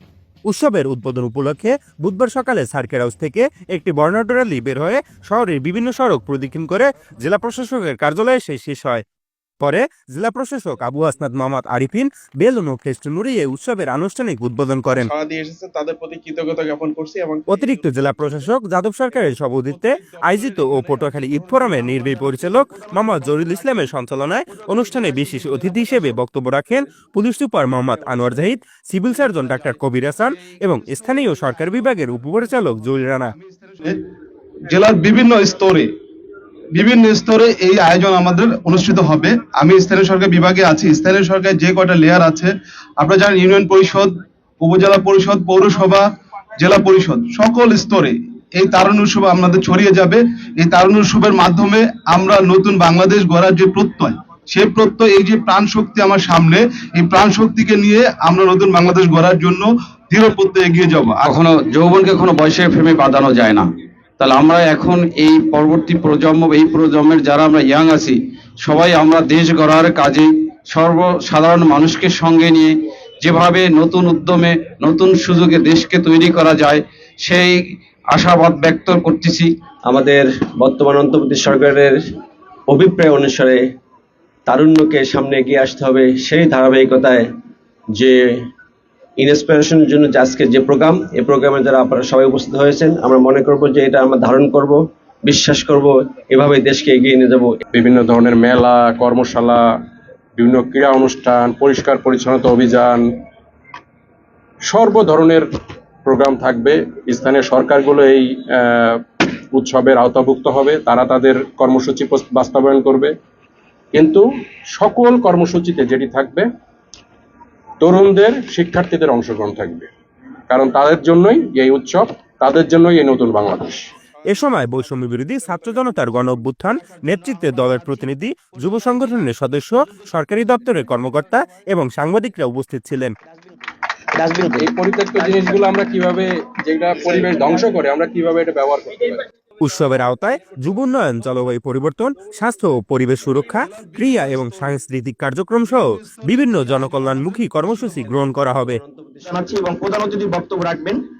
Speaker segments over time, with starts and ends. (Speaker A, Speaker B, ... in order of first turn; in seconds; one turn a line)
Speaker A: 0.5-9.0
Speaker A: 9.6-15.1
Speaker B: 15.0-17.7
Speaker A: 17.5-33.3
Speaker C: 33.7-34.0
Speaker C: 34.7-35.9
Speaker C: 36.7-46.0
Speaker C: 46.6-61.2
Speaker D: 61.2-63.6
Speaker D: 64.2-77.6
Speaker D: 78.1-79.5
Speaker E: 79.8-82.0
Speaker E: 82.7-83.6
Speaker E: 84.5-87.3
Speaker E: 87.9-88.5
Speaker E: 89.2-97.6
Speaker F: 97.7-99.6
Speaker F: 100.4-103.0
Speaker F: 104.7-105.5
Speaker F: 106.0-109.0
Speaker F: 109.5-113.1
Speaker F: 114.0-114.2
Speaker F: 114.7-116.5
Speaker F: 117.8-119.9
Speaker F: 120.5-123.8
Speaker A: 124.3-133.1
Speaker G: 134.1-134.7
Speaker F: 134.5-139.2
Speaker A: 139.6-148.8
Speaker E: 148.0-149.3
Speaker G: 149.3-151.0